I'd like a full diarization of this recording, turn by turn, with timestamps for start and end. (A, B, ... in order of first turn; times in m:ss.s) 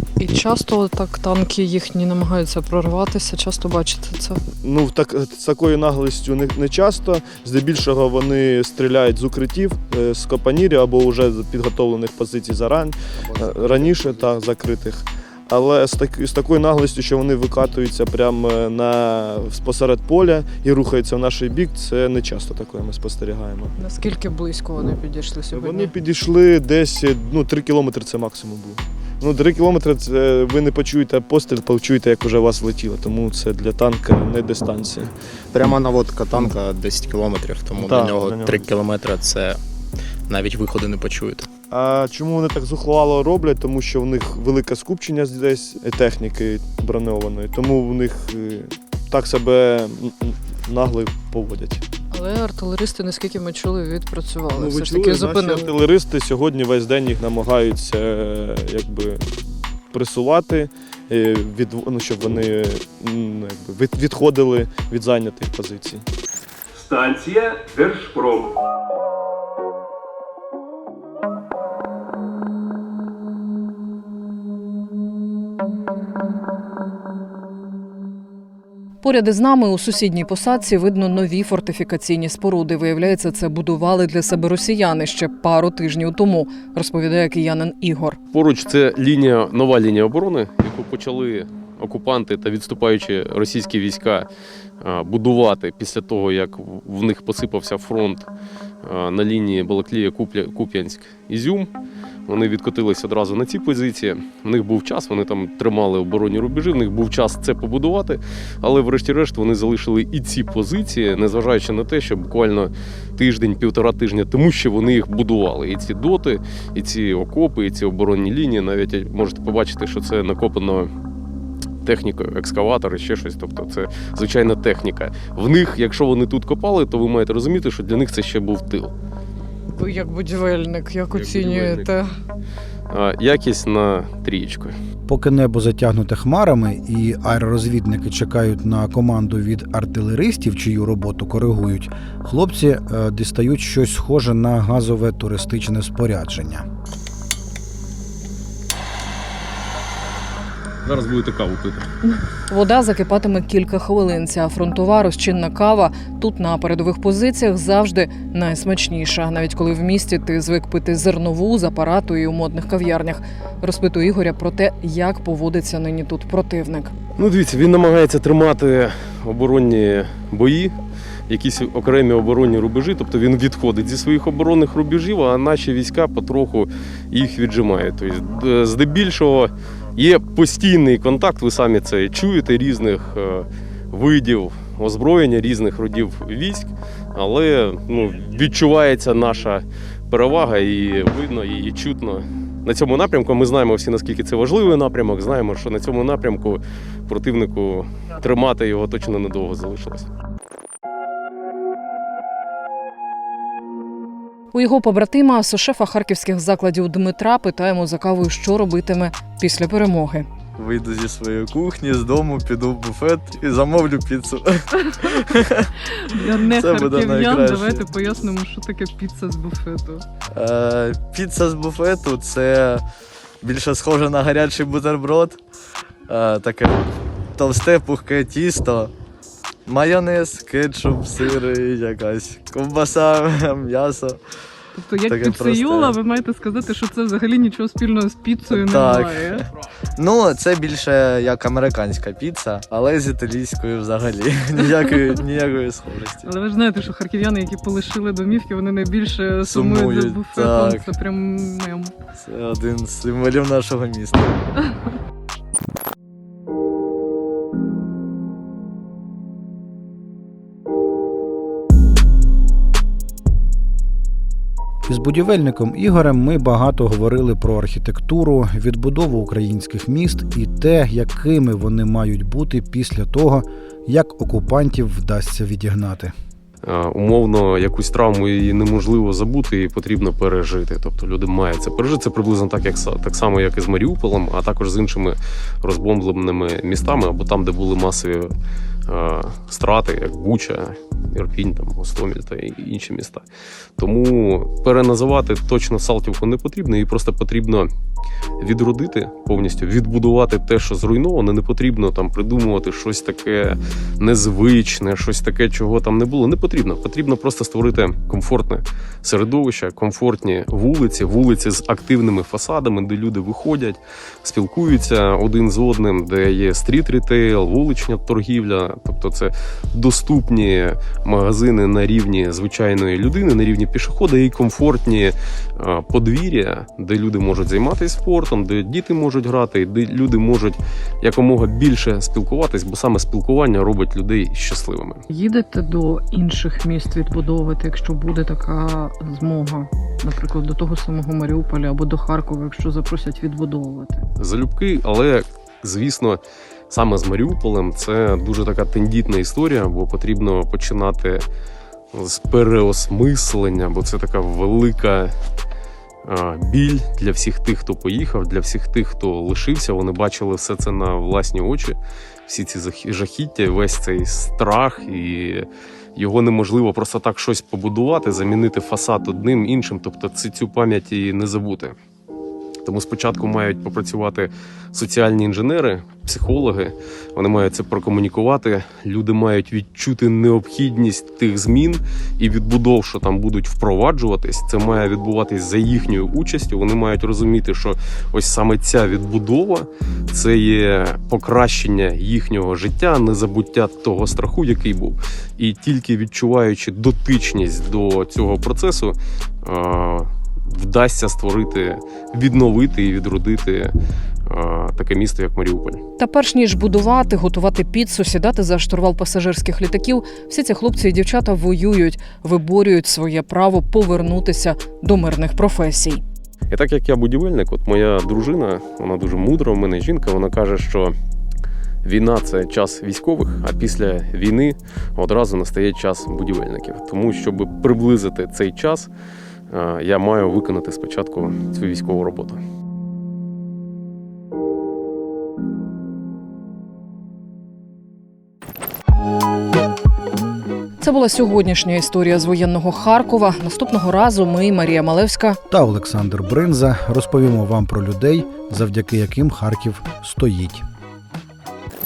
0:00.2-0:04.4 A
0:04.6-0:23.7 B
0:13.3-0:14.2 C
0:23.8-0:25.9 A
0:25.5-0:35.1 B
0:35.5-0:39.6 C
0:37.8-0:38.7 B
0:40.3-0:41.5 C
0:41.7-0:51.8 B
0:52.1-0:55.7 A
0:54.5-0:59.2 B
0:59.9-1:06.0 B
1:06.8-1:08.5 A
1:19.0-1:28.2 A
1:28.3-1:34.3 D
1:34.8-1:38.3 D
1:38.8-1:41.7 D
1:42.3-2:00.9 D
2:01.8-2:08.9 D
2:09.8-2:12.0 A
2:11.1-2:11.9 D
2:12.9-2:14.7 D
2:15.1-2:26.6 E
2:30.8-2:31.9 D
2:32.5-2:46.9 A
2:47.2-2:50.7 D
2:51.3-3:20.1 D
3:24.5-3:30.2 A
3:30.6-3:35.7 F
3:36.1-3:40.0 A
3:36.5-3:37.8 F
3:40.3-3:42.8 F
3:43.4-3:45.4 F
3:46.1-3:48.9 F
3:49.7-3:54.2 F
3:54.8-3:59.4 A
3:55.1-3:56.0 F
3:58.5-3:59.4 F
4:00.0-4:06.3 F
4:06.2-4:11.9 A
4:09.4-4:10.9 F
4:12.2-4:14.4 F
4:24.9-4:36.1 E
4:36.6-4:48.3 D
4:48.9-4:53.2 D
4:53.8-4:57.7 D
4:58.4-5:35.0 D
5:35.1-5:44.0 A
5:44.2-5:51.2 D
5:51.9-5:55.1 D
5:56.0-6:11.8 D
6:12.6-6:43.7 D
6:44.3-6:45.8 D
6:46.0-6:56.0 A
6:56.5-7:00.9 D
7:01.8-7:08.9 D
7:09.5-7:12.4 D
7:20.8-7:25.4 A
7:25.5-7:30.6 E